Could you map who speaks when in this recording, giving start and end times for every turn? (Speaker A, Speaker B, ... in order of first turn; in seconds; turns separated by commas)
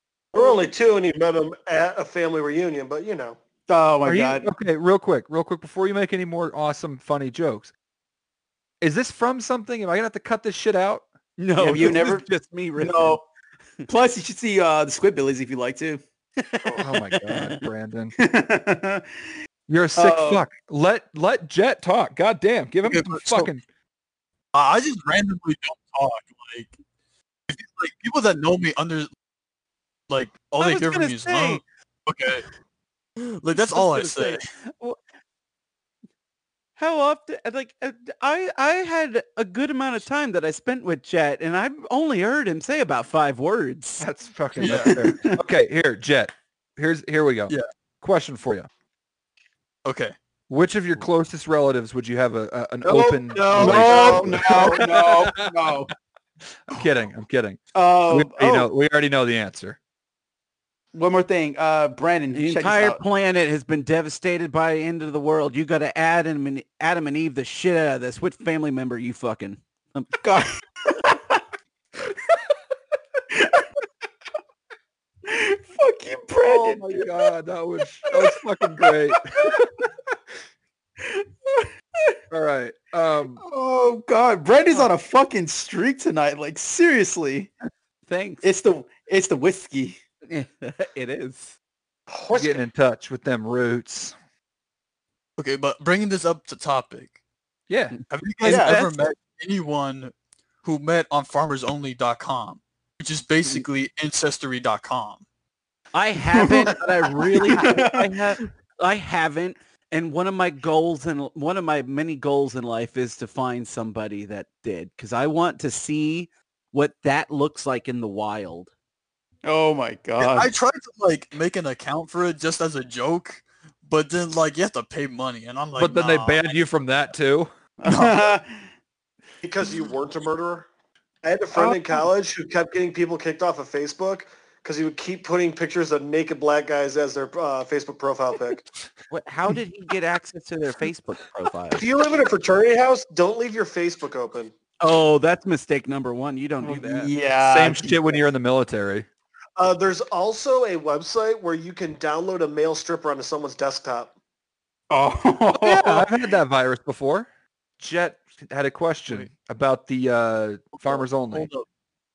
Speaker A: 0.3-3.4, Speaker B: 3.7-4.5, Speaker C: 4.0-7.7, Speaker C: 8.8-11.1, Speaker D: 11.4-13.2, Speaker B: 11.6-12.3, Speaker B: 12.8-13.2, Speaker B: 13.9-16.0, Speaker D: 16.4-17.6, Speaker C: 16.7-18.1, Speaker B: 18.2-19.3, Speaker C: 19.7-23.6, Speaker B: 20.0-20.4, Speaker E: 22.9-23.5, Speaker E: 24.5-26.8, Speaker E: 27.5-29.1, Speaker E: 30.1-32.5, Speaker D: 30.6-31.6, Speaker E: 33.4-34.5, Speaker D: 33.5-35.0, Speaker D: 36.8-44.1, Speaker C: 44.0-48.7, Speaker E: 44.6-45.0, Speaker B: 44.8-45.3, Speaker E: 49.9-50.1, Speaker C: 50.5-55.8, Speaker B: 52.9-55.9, Speaker E: 53.6-53.9, Speaker A: 53.7-54.0, Speaker C: 56.7-59.8, Speaker B: 57.7-58.7, Speaker B: 60.9-63.0, Speaker D: 62.3-70.1, Speaker B: 70.2-71.4, Speaker B: 73.3-73.7, Speaker B: 75.2-77.2, Speaker C: 76.4-79.9, Speaker B: 78.1-79.6, Speaker B: 81.0-82.2, Speaker C: 82.3-83.4, Speaker B: 83.4-87.5, Speaker D: 88.1-88.5, Speaker B: 88.4-90.0, Speaker D: 90.3-91.6, Speaker A: 92.1-92.6, Speaker C: 92.3-94.2, Speaker E: 95.4-97.2, Speaker C: 97.7-98.0, Speaker E: 98.1-100.1, Speaker D: 98.4-98.9, Speaker B: 98.4-98.8, Speaker E: 100.6-105.2, Speaker D: 105.9-118.7, Speaker B: 106.3-108.2, Speaker B: 119.5-120.5, Speaker E: 120.2-126.6, Speaker C: 125.8-127.5, Speaker B: 127.8-128.7, Speaker E: 127.9-128.3, Speaker A: 129.4-130.7, Speaker A: 131.2-138.7, Speaker C: 131.6-132.0, Speaker D: 139.1-141.8, Speaker A: 141.7-144.5, Speaker D: 144.8-147.1, Speaker B: 146.6-148.2, Speaker C: 147.4-149.1, Speaker A: 149.6-154.1, Speaker B: 154.9-156.1, Speaker C: 155.5-157.3, Speaker C: 157.8-161.5, Speaker E: 160.9-161.7